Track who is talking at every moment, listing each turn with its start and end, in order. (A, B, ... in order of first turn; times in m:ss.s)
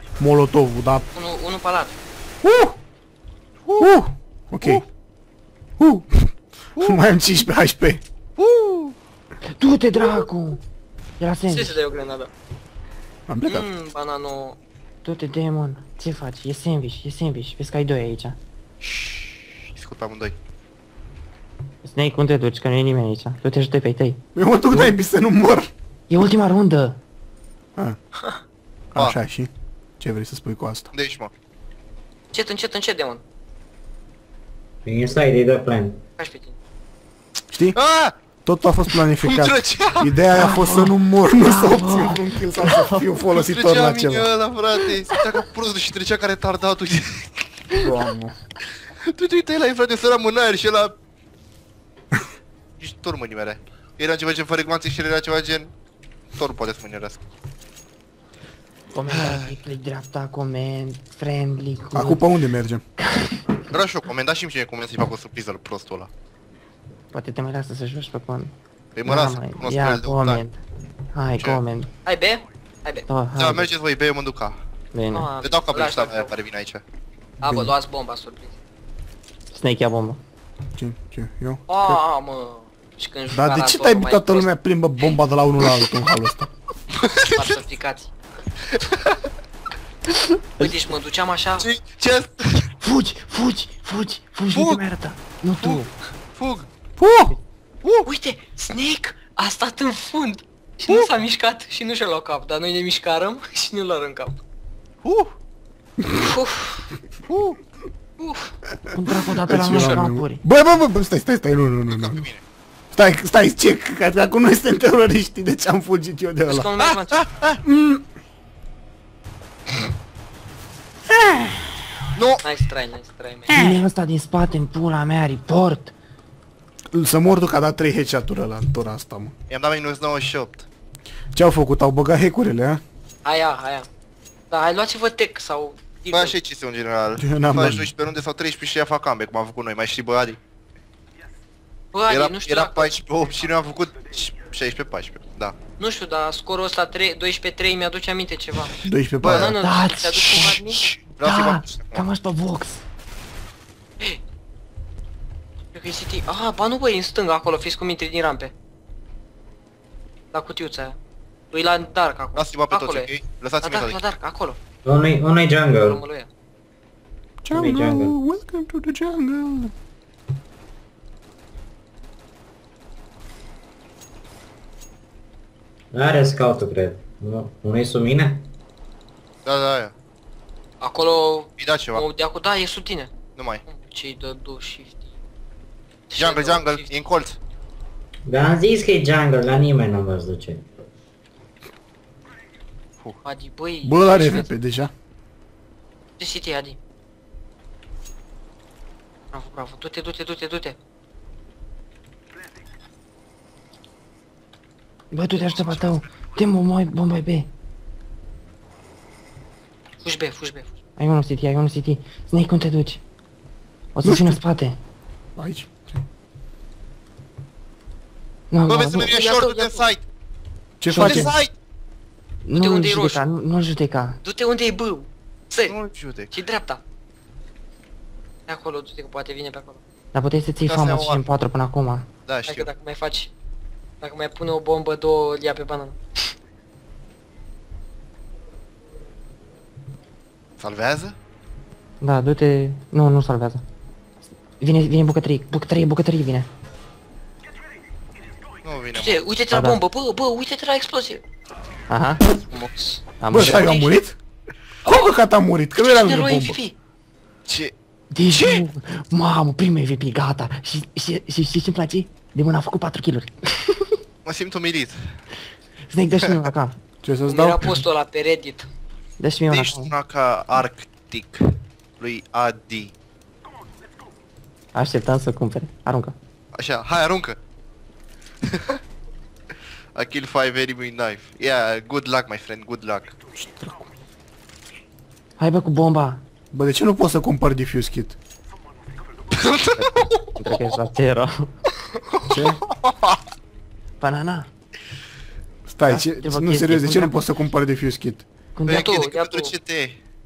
0:00.2-0:01.0 A
0:01.1-0:02.0 B
0:02.4-0:02.8 A
0:03.8-0:04.8 A
0:05.8-0:08.0 A
0:08.4-0:08.9 C
0:09.6-0:10.6 D
0:11.2-0:11.8 D
0:11.5-0:12.3 B
0:13.3-0:13.7 A
0:13.4-0:14.6 B
0:15.0-0:18.4 D
0:19.7-0:20.3 C
0:21.8-0:24.2 D
0:24.3-0:25.7 A
0:26.1-0:27.0 D
0:28.9-0:30.9 A
0:30.9-0:31.3 C
0:32.3-0:33.2 B
0:34.8-0:36.0 E
0:36.2-0:36.6 B
0:37.5-0:37.8 A
0:37.7-0:38.1 C
0:38.4-0:44.3 A
0:39.2-0:40.1 C
0:40.3-0:43.0 D
0:43.3-0:47.6 C
0:47.8-0:48.4 A
0:49.0-0:50.9 C
0:52.8-0:55.7 C
0:56.3-0:57.2 C
0:58.9-1:02.2 D
1:01.9-1:02.8 A
1:03.1-1:03.4 D
1:03.7-1:06.1 C
1:07.1-1:08.5 D
1:09.0-1:10.4 C
1:09.0-1:10.6 D
1:11.1-1:11.9 D
1:12.0-1:13.0 B
1:13.1-1:13.7 D
1:13.4-1:14.6 C
1:14.9-1:15.3 D
1:15.1-1:16.3 B
1:15.4-1:16.8 C
1:17.4-1:17.7 A
1:17.4-1:18.5 B
1:19.5-1:20.2 D
1:20.7-1:22.0 A
1:21.7-1:24.5 B
1:23.3-1:26.5 A
1:27.0-1:27.6 C
1:27.3-1:28.1 B
1:28.7-1:29.2 C
1:30.2-1:30.7 D
1:30.6-1:31.7 B
1:31.6-1:32.7 C
1:32.8-1:35.9 D
1:34.5-1:34.8 C
1:36.4-1:36.7 C
1:37.0-1:37.3 A
1:38.0-1:44.4 B
1:45.0-1:45.3 C
1:46.1-1:46.8 B
1:47.3-1:47.6 C
1:48.2-1:48.5 B
1:48.8-1:52.2 A
1:48.9-1:50.4 D
1:51.9-1:52.4 C
1:52.9-1:56.7 A
1:56.5-1:57.2 B
1:56.8-1:57.6 C
1:57.6-1:58.0 A
2:01.1-2:01.7 A
2:02.1-2:02.4 C
2:02.4-2:03.6 B
2:03.5-2:03.8 A
2:03.5-2:05.9 D
2:06.9-2:09.3 A
2:09.5-2:10.7 C
2:11.3-2:12.8 A
2:13.2-2:13.9 B
2:14.5-2:16.4 B
2:16.1-2:20.4 C
2:17.2-2:17.9 A
2:21.9-2:22.9 B
2:22.1-2:25.6 C
2:25.8-2:30.8 B
2:28.8-2:29.5 A
2:29.2-2:29.5 C
2:29.5-2:32.8 D
2:31.1-2:32.1 C
2:35.7-2:38.5 B
2:40.3-2:41.0 B
2:41.5-2:44.6 B
2:42.4-2:44.0 C
2:44.8-2:46.0 E
2:45.8-2:46.3 B
2:47.4-2:49.7 A
2:47.5-2:48.1 E
2:55.9-2:58.4 E
2:59.4-2:59.9 C
3:00.8-3:03.1 B
3:01.6-3:02.0 C
3:03.4-3:03.6 C
3:03.6-3:05.1 B
3:06.1-3:06.9 B
3:06.2-3:07.4 C
3:08.3-3:10.7 E
3:13.2-3:14.5 B
3:13.8-3:14.9 A
3:16.2-3:16.8 B
3:19.3-3:20.8 B
3:25.1-3:27.5 D
3:30.0-3:30.7 B
3:31.0-3:33.0 D
3:33.9-3:34.8 D
3:34.0-3:34.4 A
3:35.4-3:36.0 A
3:38.5-3:39.2 D
3:38.7-3:40.0 C
3:39.0-3:39.8 B
3:40.8-3:41.3 A
3:40.9-3:41.3 D
3:40.9-3:41.5 C
3:42.4-3:44.2 D
3:42.5-3:43.2 B
3:44.2-3:45.8 B
3:45.7-3:46.3 C
3:46.3-3:46.8 B
3:48.5-3:49.8 B
3:50.1-3:52.1 D
3:50.6-3:51.2 C
3:52.2-3:52.7 C
3:52.5-3:53.3 B
3:54.0-3:56.0 B
4:00.6-4:01.1 C
4:02.0-4:03.6 D
4:04.6-4:06.5 D
4:08.6-4:09.3 C
4:08.9-4:11.2 B
4:09.5-4:09.8 D
4:11.9-4:12.2 D
4:12.4-4:13.9 B
4:13.2-4:13.7 D
4:13.3-4:14.2 A
4:14.8-4:15.1 B
4:14.8-4:16.6 A
4:15.8-4:16.8 B
4:17.5-4:17.7 C
4:18.1-4:24.0 D
4:18.3-4:18.6 C
4:24.2-4:25.2 C
4:25.9-4:26.8 D
4:26.2-4:26.5 C
4:27.0-4:27.8 A
4:27.3-4:28.7 B
4:29.2-4:29.9 D
4:29.5-4:32.9 C
4:34.7-4:36.1 D
4:36.5-4:37.4 C
4:38.4-4:38.8 C
4:39.9-4:43.2 C
4:43.3-4:43.9 A
4:45.4-4:46.2 D
4:46.5-4:48.2 A
4:49.3-4:50.8 C
4:49.8-4:51.5 D
4:52.1-4:53.2 C
4:52.3-4:52.6 E
4:54.0-4:54.5 D
4:55.7-4:58.2 A
4:55.9-4:57.2 D
4:58.6-4:58.9 D
4:58.6-4:59.5 B
4:58.7-5:00.0 C